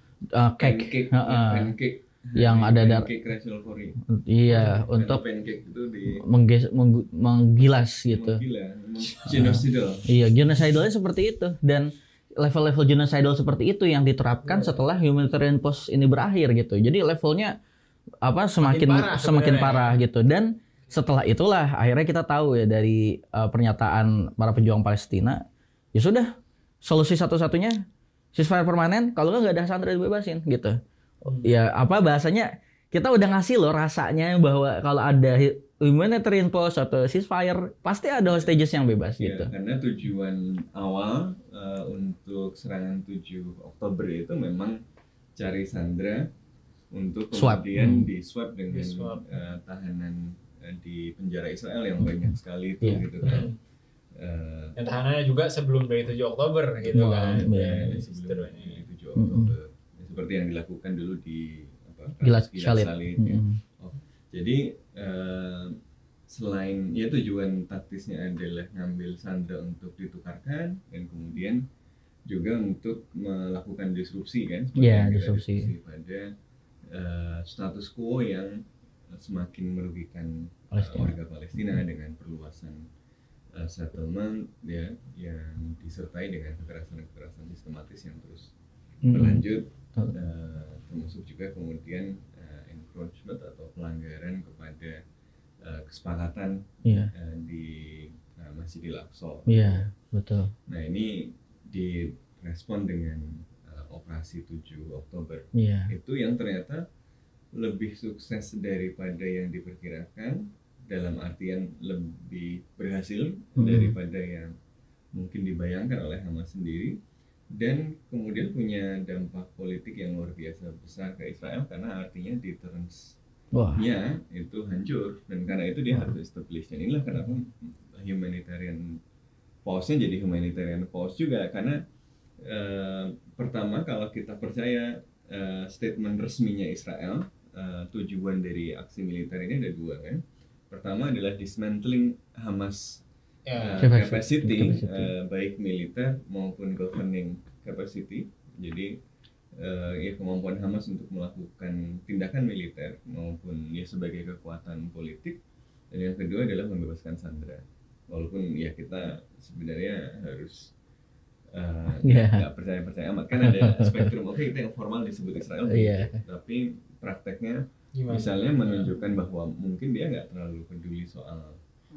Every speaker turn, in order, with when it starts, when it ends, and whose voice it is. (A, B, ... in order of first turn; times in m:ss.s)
0:00.3-0:01.7 A
0:00.6-0:06.2 B
0:02.4-0:03.1 A
0:04.1-0:05.2 A
0:06.1-0:08.4 A
0:08.1-0:10.1 B
0:09.2-0:17.6 A
0:14.5-0:14.8 C
0:18.2-0:27.8 A
0:18.6-0:20.0 C
0:28.3-0:39.5 A
0:31.3-0:31.5 C
0:39.2-0:44.8 B
0:45.4-0:46.3 B
0:46.9-0:53.5 B
0:47.3-0:48.1 A
0:48.7-0:49.4 C
0:52.0-0:53.4 A
0:53.2-0:53.6 C
0:54.2-0:54.8 B
0:54.8-0:58.8 C
0:56.9-1:05.8 B
0:56.9-0:57.9 A
0:59.2-0:59.5 A
1:02.2-1:03.6 A
1:06.3-1:11.6 B
1:12.3-1:16.3 B
1:14.8-1:15.7 A
1:16.9-1:18.6 B
1:19.2-1:22.8 B
1:20.7-1:21.2 A
1:23.6-1:28.5 B
1:29.0-1:29.4 A
1:29.1-1:35.0 B
1:35.6-1:39.9 B
1:36.8-1:37.1 A
1:39.5-1:40.5 A
1:40.7-1:46.8 B
1:45.6-1:45.9 A
1:47.6-1:54.5 B
1:53.6-1:54.0 A
1:55.1-1:57.0 B
1:57.6-2:03.2 B
2:03.5-2:03.8 A
2:03.8-2:09.0 B
2:09.6-2:11.8 B
2:12.4-2:23.0 B
2:23.5-2:23.9 C
2:23.6-2:28.9 B
2:23.8-2:25.1 A
2:29.6-2:35.4 B
2:35.9-2:40.7 B
2:41.5-2:51.6 B
2:42.0-2:42.4 A
2:43.4-2:44.1 A
2:45.6-2:46.2 A
2:48.0-2:48.9 C